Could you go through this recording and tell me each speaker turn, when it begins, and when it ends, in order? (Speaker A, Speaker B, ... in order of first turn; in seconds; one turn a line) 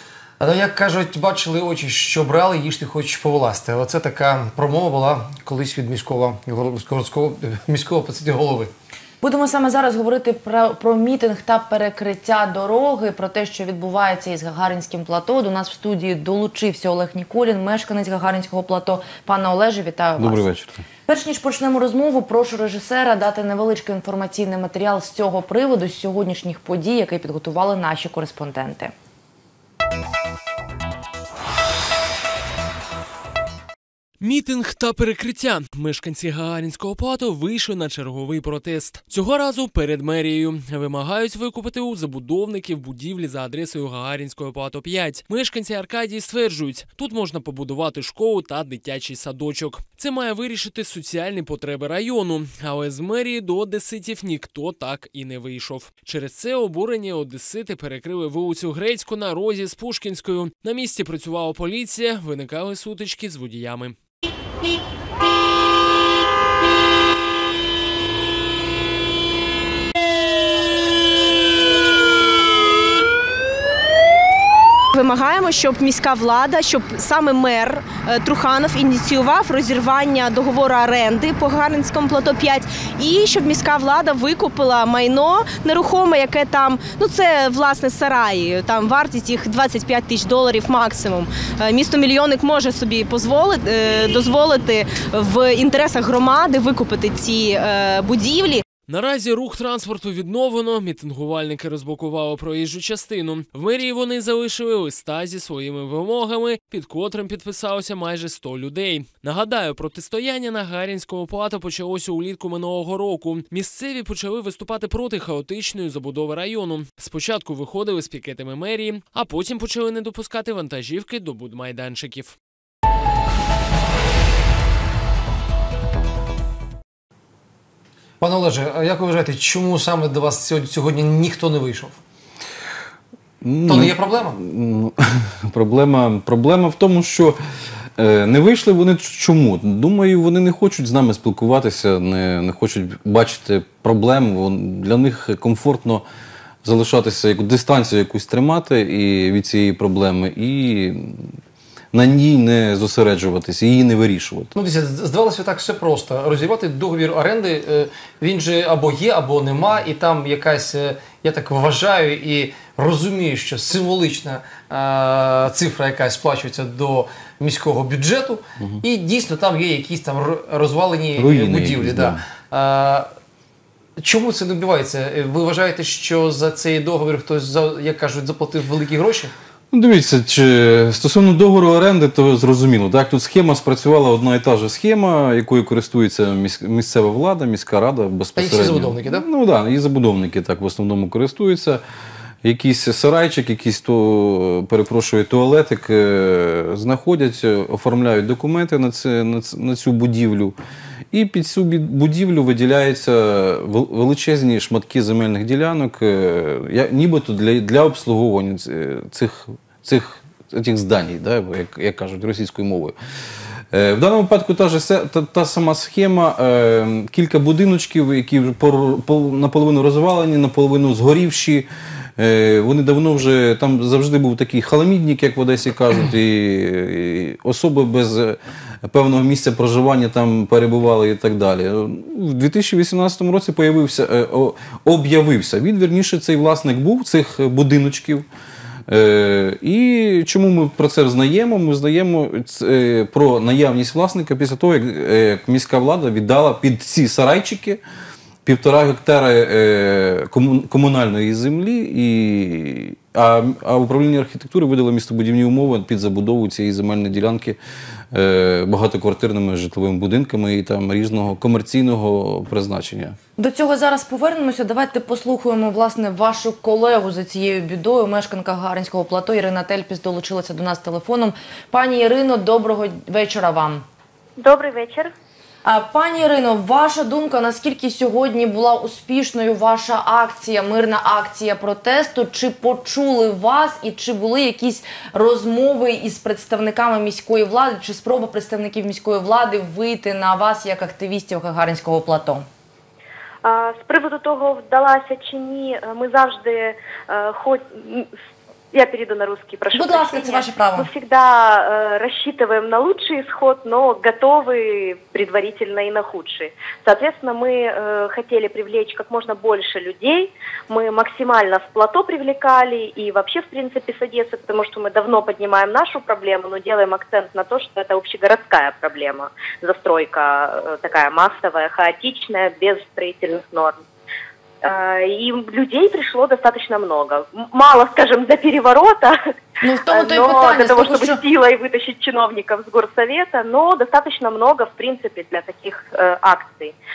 Speaker A: 0.4-8.7
Speaker B: 9.2-20.4
Speaker C: 20.2-20.8
Speaker B: 21.1-28.9
Speaker D: 34.2-64.0
Speaker E: 74.9-98.6
Speaker D: 98.9-122.3
Speaker A: 128.2-132.0
Speaker C: 133.4-137.4
Speaker A: 133.7-134.4
Speaker C: 138.0-146.0
Speaker C: 146.6-151.3
Speaker C: 151.9-154.5
Speaker A: 154.5-173.1
Speaker C: 171.2-172.2
Speaker A: 174.0-179.3
Speaker C: 179.7-191.8
Speaker A: 188.3-189.2
Speaker C: 192.4-200.6
Speaker C: 201.1-212.9
Speaker C: 213.7-238.2
Speaker C: 238.9-247.8
Speaker C: 248.4-257.6
Speaker C: 258.1-263.1
Speaker B: 263.4-273.8
Speaker F: 274.4-275.1
Speaker B: 275.6-292.4
Speaker F: 293.4-298.1
Speaker F: 298.7-323.8
Speaker B: 299.7-300.9
Speaker F: 324.6-329.1
Speaker B: 329.6-331.2
Speaker F: 329.9-336.7